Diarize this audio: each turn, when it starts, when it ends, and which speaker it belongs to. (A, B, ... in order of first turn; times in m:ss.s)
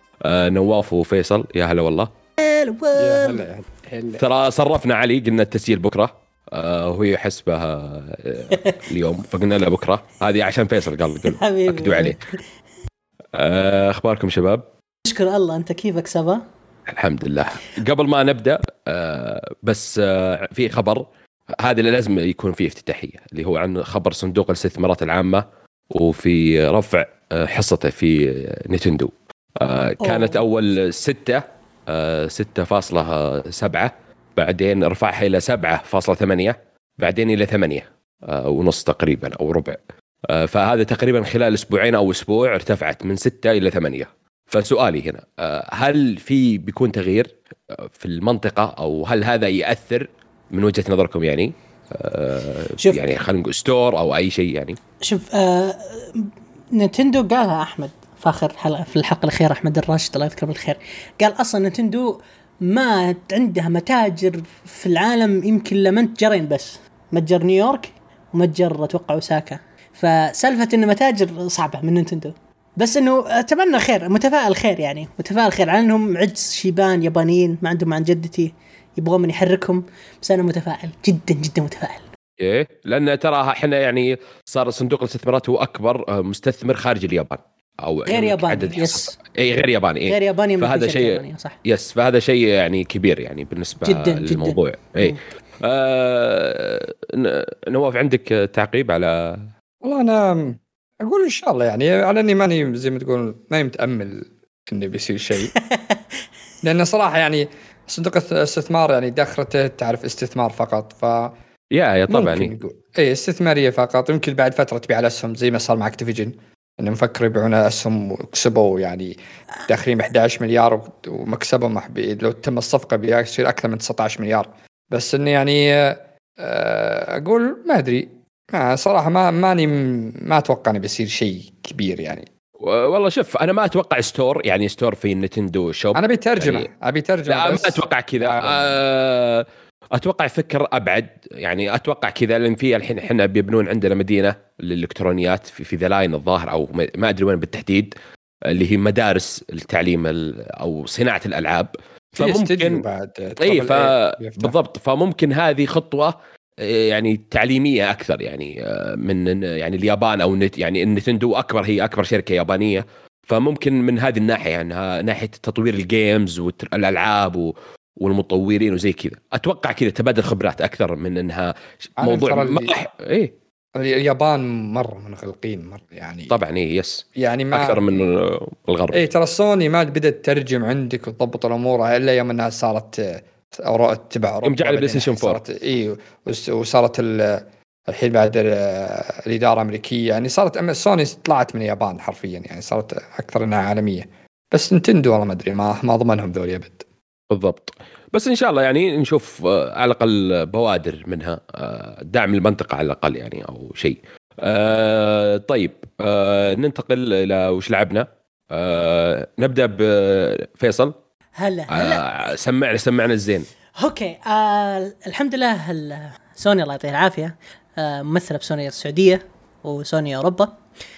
0:00.2-0:02.1 A
0:02.4-0:03.4 B
0:03.0-0:04.2 C
0:04.2-0:12.2 A
0:08.5-0:08.8 B
0:11.2-0:12.4 B
0:13.3-0:14.6 A
0:15.0-0:16.4 B
0:16.9-0:54.8 A
0:30.0-0:30.4 B
0:52.8-0:53.0 B
0:55.0-1:22.0 B
1:22.4-1:39.5 A
1:28.1-1:29.2 B
1:30.1-1:31.6 B
1:33.8-1:35.2 B
1:39.8-1:45.5 C
1:45.5-1:46.0 B
1:46.6-1:51.3 C
1:51.7-1:52.5 A
1:52.1-2:12.3 C
2:12.6-2:16.7 A
2:15.9-2:18.8 C
2:17.3-2:27.9 A
2:28.5-2:32.8 A
2:32.2-2:34.5 C
2:33.4-2:53.3 A
2:52.0-2:52.8 C
2:53.8-2:56.4 C
2:56.3-2:59.0 A
2:57.2-2:57.9 C
2:58.9-3:16.8 C
3:04.4-3:05.4 A
3:17.3-3:30.9 A
3:31.4-3:32.1 B
3:31.7-3:33.5 A
3:33.8-3:40.5 B